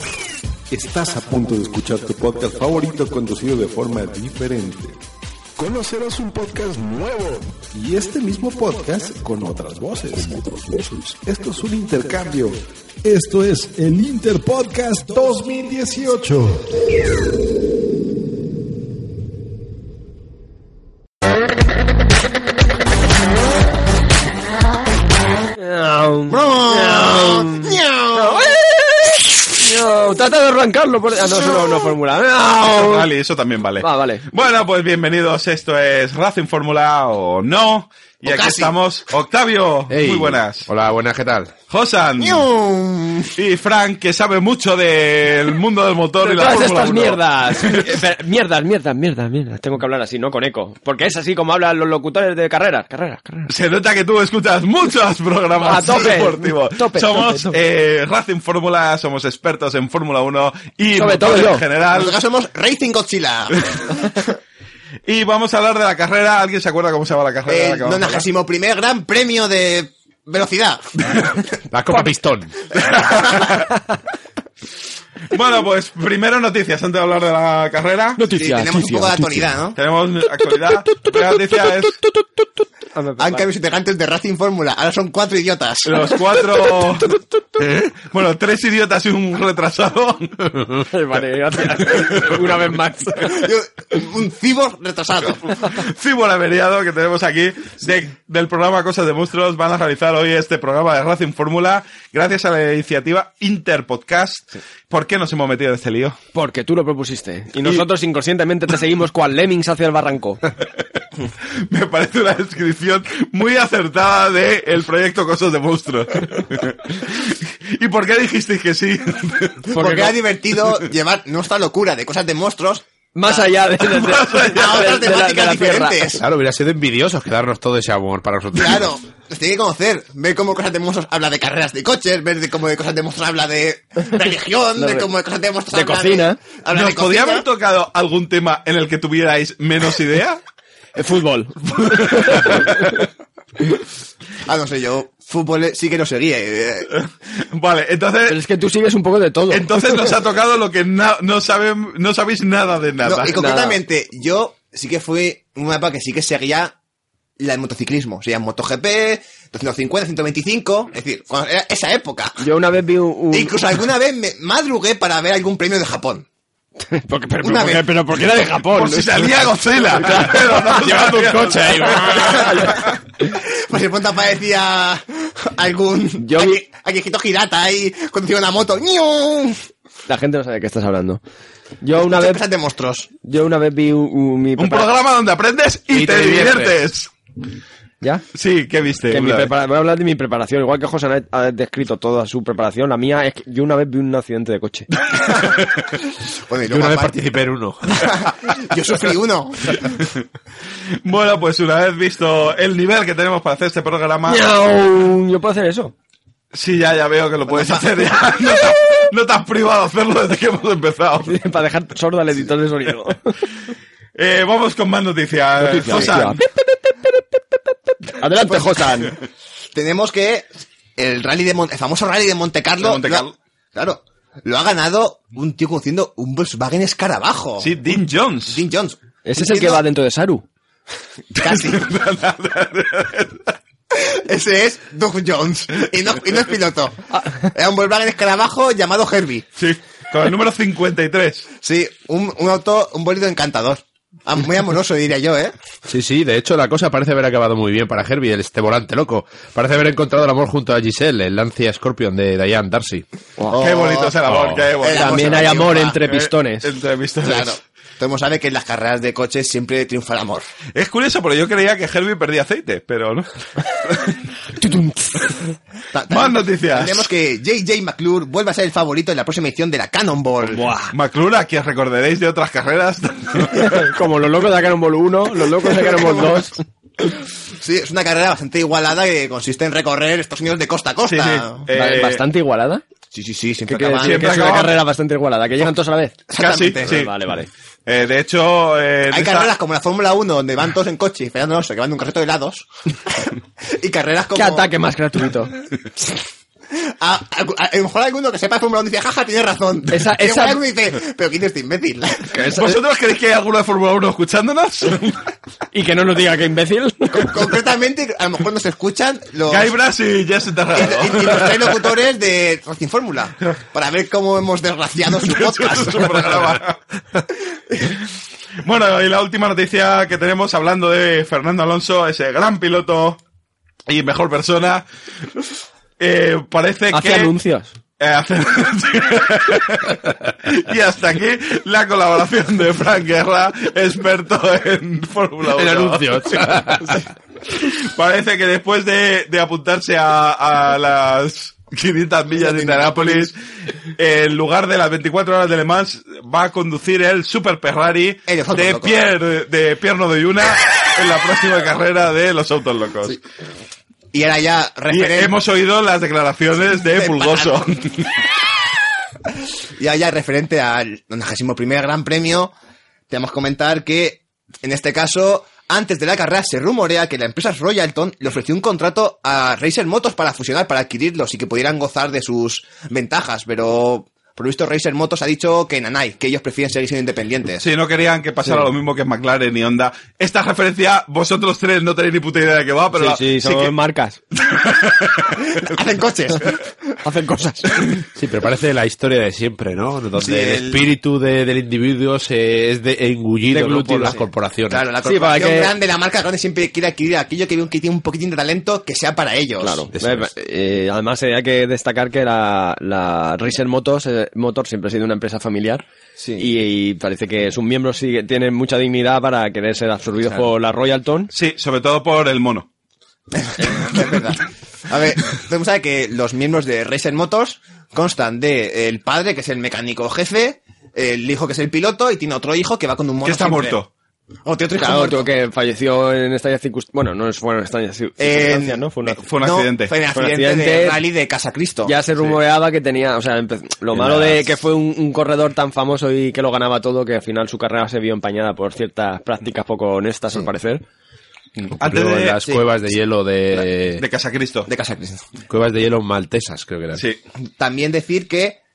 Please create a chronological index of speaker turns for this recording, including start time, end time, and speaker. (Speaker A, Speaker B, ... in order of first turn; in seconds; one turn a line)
Speaker A: 0.7-5.0
Speaker A: 5.6-16.6
Speaker B: 25.6-28.6
Speaker C: 26.3-29.5
Speaker B: 29.6-33.1
Speaker D: 32.7-40.7
Speaker B: 33.8-34.2
Speaker C: 38.2-38.7
Speaker E: 39.9-41.5
Speaker D: 41.7-42.5
Speaker C: 42.2-43.3
Speaker D: 43.3-48.0
Speaker B: 46.2-53.5
Speaker D: 53.5-62.1
Speaker B: 55.6-57.5
Speaker C: 55.8-56.2
Speaker B: 60.9-61.6
Speaker C: 61.9-64.0
Speaker D: 65.0-68.2
Speaker C: 67.5-70.9
Speaker E: 71.7-72.5
Speaker C: 72.7-73.6
Speaker D: 72.8-73.7
Speaker D: 75.3-78.2
Speaker B: 78.2-79.4
Speaker C: 78.3-79.8
Speaker D: 79.7-82.0
Speaker B: 80.9-81.2
Speaker B: 82.9-83.5
Speaker C: 83.2-86.0
Speaker D: 85.8-90.8
Speaker B: 90.8-93.5
Speaker D: 92.0-92.4
Speaker C: 93.2-95.5
Speaker D: 95.6-106.2
Speaker B: 106.3-110.4
Speaker D: 111.7-119.7
Speaker C: 119.7-123.4
Speaker B: 119.7-120.2
Speaker B: 123.1-126.2
Speaker D: 123.9-124.9
Speaker C: 124.4-126.2
Speaker E: 126.2-128.9
Speaker C: 128.6-137.4
Speaker B: 134.8-135.1
Speaker B: 135.7-136.4
Speaker D: 136.7-140.4
Speaker B: 140.9-142.9
Speaker D: 141.9-142.9
Speaker C: 144.4-146.9
Speaker D: 146.9-148.4
Speaker B: 148.2-150.1
Speaker D: 149.5-153.3
Speaker C: 153.0-156.7
Speaker B: 153.3-153.8
Speaker C: 157.4-162.4
Speaker B: 162.4-163.5
Speaker C: 163.3-166.2
Speaker B: 166.8-172.9
Speaker C: 167.4-167.9
Speaker D: 168.7-172.9
Speaker E: 170.9-172.1
Speaker C: 172.2-179.6
Speaker B: 176.2-176.6
Speaker B: 180.1-181.2
Speaker B: 181.8-182.4
Speaker C: 181.9-183.1
Speaker B: 183.2-184.9
Speaker D: 184.6-187.1
Speaker E: 185.9-186.8
Speaker D: 188.3-189.5
Speaker B: 189.1-194.9
Speaker C: 195.2-195.9
Speaker C: 196.5-197.2
Speaker E: 196.7-198.2
Speaker C: 197.9-199.9
Speaker D: 201.0-204.4
Speaker B: 204.3-205.9
Speaker D: 206.5-211.4
Speaker C: 207.5-207.8
Speaker B: 211.2-213.4
Speaker D: 214.2-216.4
Speaker B: 215.6-217.2
Speaker B: 218.0-219.2
Speaker C: 219.7-227.7
Speaker D: 222.8-223.3
Speaker D: 227.6-228.6
Speaker C: 228.5-229.8
Speaker B: 229.2-230.4
Speaker D: 231.3-233.5
Speaker C: 231.4-231.9
Speaker C: 233.9-239.5
Speaker D: 239.6-241.5
Speaker C: 241.6-245.5
Speaker E: 245.9-253.0
Speaker C: 253.5-256.0
Speaker D: 253.6-257.6
Speaker B: 254.9-256.7
Speaker C: 257.2-260.4
Speaker D: 260.7-263.3
Speaker B: 264.6-265.4
Speaker C: 265.9-270.7
Speaker D: 266.1-267.1
Speaker B: 270.4-270.9
Speaker D: 270.9-273.9
Speaker B: 273.5-276.6
Speaker C: 277.5-281.6
Speaker D: 281.1-282.2
Speaker B: 281.7-282.8
Speaker C: 283.1-284.6
Speaker B: 283.6-286.3
Speaker D: 284.0-284.8
Speaker C: 286.3-287.0
Speaker D: 286.4-287.1
Speaker B: 286.8-287.5
Speaker D: 287.9-289.5
Speaker C: 289.1-294.7
Speaker B: 294.3-295.5
Speaker C: 296.7-302.4
Speaker B: 299.9-300.6
Speaker B: 302.3-302.8
Speaker D: 302.5-305.3
Speaker B: 305.7-307.3
Speaker C: 307.1-309.7
Speaker D: 309.5-311.9
Speaker C: 310.7-316.6
Speaker D: 315.1-316.8
Speaker D: 318.6-323.2
Speaker D: 323.9-324.8
Speaker D: 326.0-327.3
Speaker B: 326.9-327.7
Speaker D: 328.0-336.7
Speaker E: 335.5-337.0
Speaker D: 337.5-343.3
Speaker C: 342.4-343.3
Speaker D: 343.9-353.2
Speaker C: 348.3-348.9
Speaker C: 354.1-355.3
Speaker D: 354.9-358.1
Speaker C: 356.9-357.6
Speaker C: 359.8-362.5
Speaker C: 363.1-377.6
Speaker D: 377.6-383.7
Speaker B: 382.9-384.2
Speaker D: 384.4-385.4
Speaker C: 385.5-386.7
Speaker B: 387.0-387.8
Speaker E: 388.1-394.9
Speaker C: 390.2-390.8
Speaker B: 393.5-394.2
Speaker C: 394.0-399.9
Speaker B: 395.0-395.7
Speaker B: 399.6-405.8
Speaker E: 399.9-400.3
Speaker C: 406.2-406.5
Speaker B: 406.4-411.3
Speaker D: 411.3-412.7
Speaker C: 413.4-423.8
Speaker D: 423.2-423.9
Speaker C: 424.4-425.2
Speaker B: 424.8-429.2
Speaker C: 428.2-431.9
Speaker D: 429.2-429.9
Speaker B: 430.1-431.0
Speaker B: 431.8-440.8
Speaker C: 434.0-434.4
Speaker E: 441.6-444.0
Speaker D: 441.8-442.4
Speaker D: 444.0-444.7
Speaker C: 444.7-445.2
Speaker E: 445.5-447.0
Speaker C: 447.6-448.6